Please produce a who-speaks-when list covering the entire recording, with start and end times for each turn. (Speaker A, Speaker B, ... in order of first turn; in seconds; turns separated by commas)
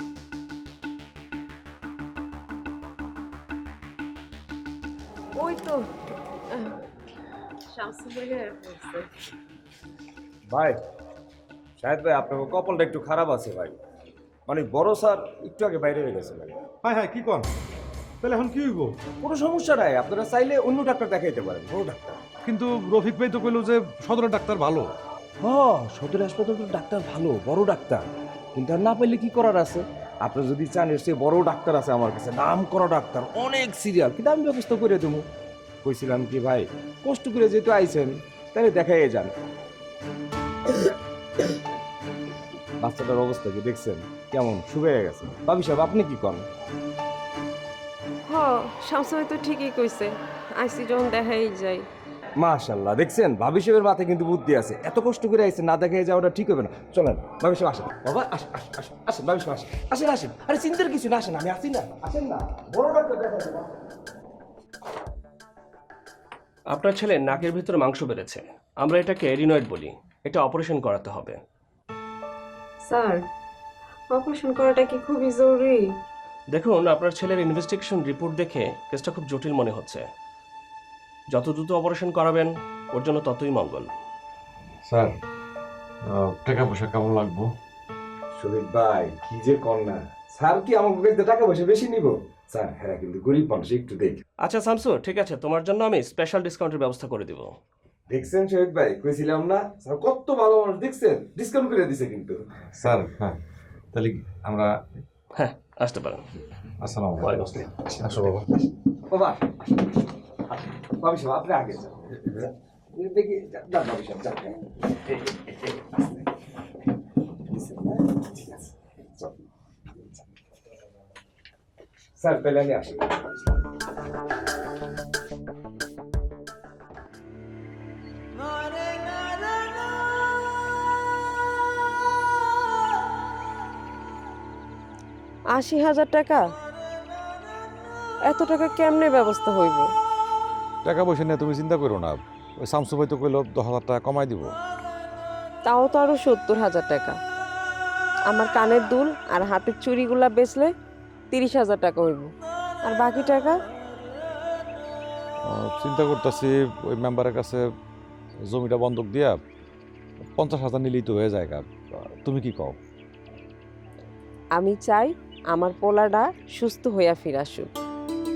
Speaker A: 5.3-5.9, Speaker A: 6.5-6.8, Speaker A: 7.7-9.1, Speaker B: 10.5-10.8, Speaker B: 11.8-13.8, Speaker B: 14.5-16.6, Speaker C: 16.8-17.5, Speaker C: 18.2-18.9, Speaker B: 19.2-22.2, Speaker C: 22.4-24.9, Speaker B: 25.4-35.2, Speaker B: 35.8-39.3, Speaker B: 42.8-46.5, Speaker A: 48.3-51.9, Speaker B: 52.4-63.7, Speaker D: 66.7-71.4, Speaker A: 72.8-73.2, Speaker A: 74.1-75.9, Speaker D: 76.5-80.0, Speaker D: 81.3-83.9, Speaker C: 84.8-85.2, Speaker C: 86.0-87.5, Speaker B: 88.3-94.2, Speaker D: 94.4-97.5, Speaker B: 98.1-102.4, Speaker C: 102.7-103.4, Speaker C: 103.9-104.7, Speaker D: 105.3-106.2, Speaker C: 106.8-108.4, Speaker D: 107.2-107.9, Speaker B: 109.1-116.3, Speaker B: 117.5-119.3, Speaker B: 119.9-120.2, Speaker B: 122.2-123.3, Speaker A: 135.5-136.5, Speaker A: 138.2-139.9, Speaker C: 140.8-144.5, Speaker A: 145.7-147.2, Speaker A: 148.3-150.7, Speaker A: 151.3-152.3, Speaker A: 152.8-153.6, Speaker C: 155.5-157.6, Speaker C: 158.5-159.4, Speaker C: 160.3-162.8, Speaker A: 164.6-167.7